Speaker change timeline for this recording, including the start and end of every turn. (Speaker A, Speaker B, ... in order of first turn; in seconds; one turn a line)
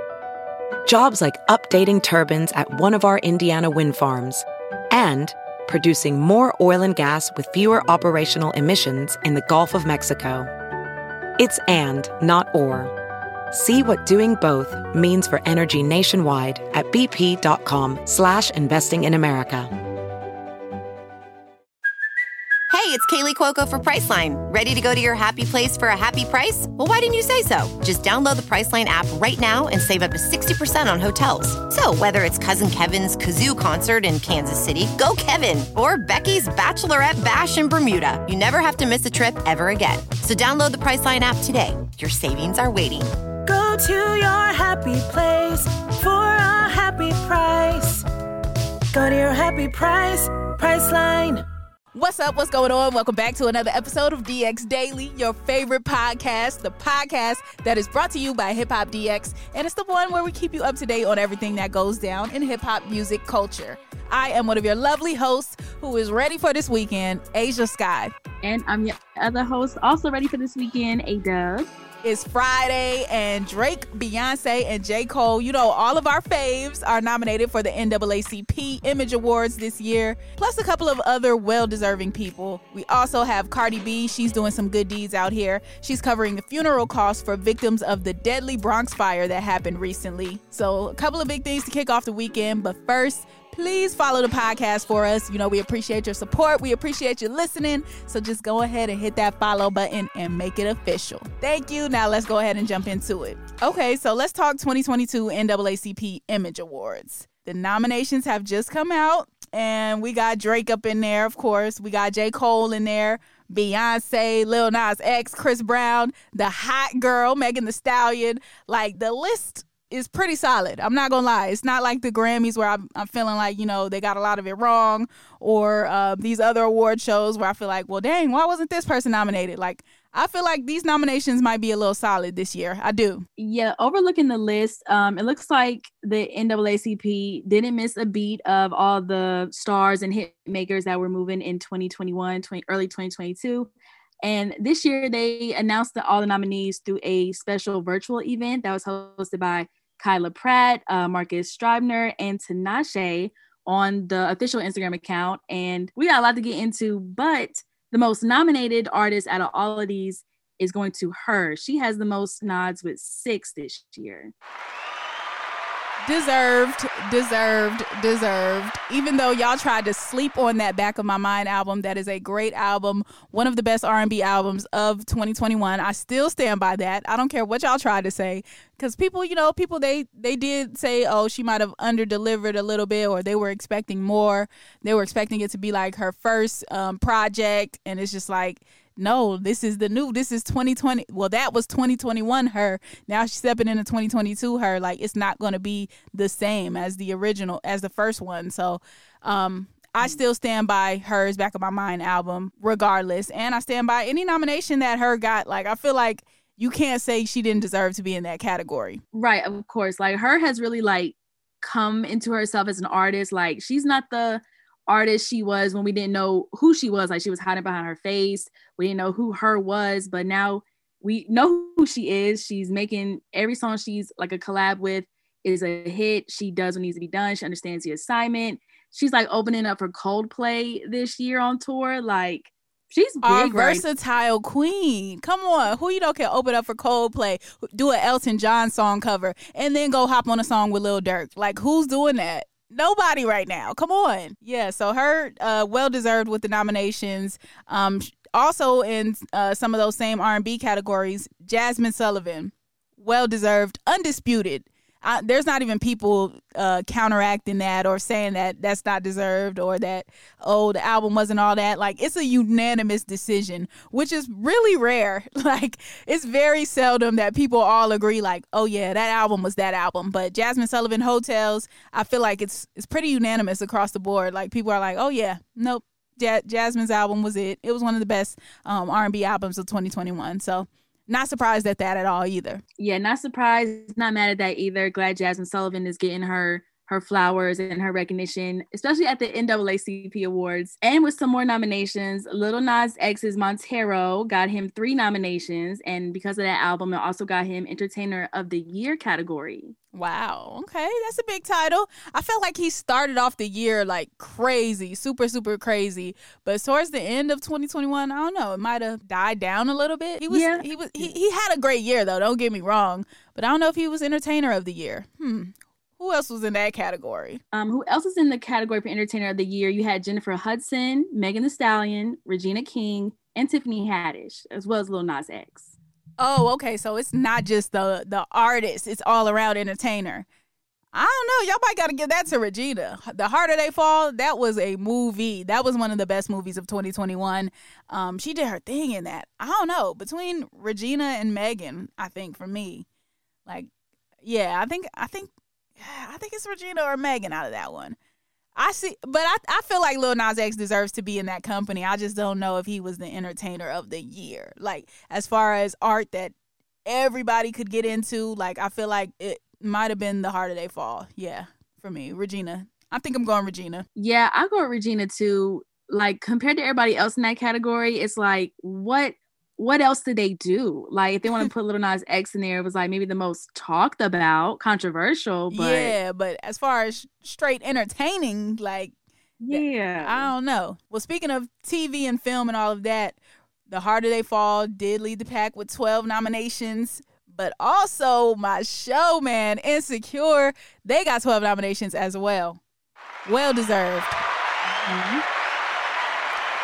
Speaker A: 0.8-10.5
Speaker A: 11.4-12.9
Speaker A: 13.5-19.7
Speaker B: 22.7-43.1
Speaker C: 43.5-48.0
Speaker C: 48.9-51.4
Speaker D: 51.9-68.1
Speaker E: 68.4-71.7
Speaker D: 72.0-133.2
Speaker E: 133.4-143.7
Speaker E: 144.2-164.3
Speaker D: 166.0-209.0
Speaker E: 209.1-233.8
Speaker D: 233.2-282.6
Speaker E: 282.8-299.7
Speaker D: 299.9-317.4
Speaker E: 310.3-311.1
Speaker E: 317.5-325.7
Speaker D: 326.2-330.2
Speaker D: 330.9-342.9
Speaker D: 344.2-348.0
Speaker D: 348.6-356.3
Speaker D: 356.9-363.9
Speaker E: 363.9-376.0
Speaker D: 375.5-378.9
Speaker E: 379.4-380.3
Speaker D: 379.5-383.2
Speaker D: 383.7-392.6
Speaker D: 393.2-394.2
Speaker E: 394.8-395.2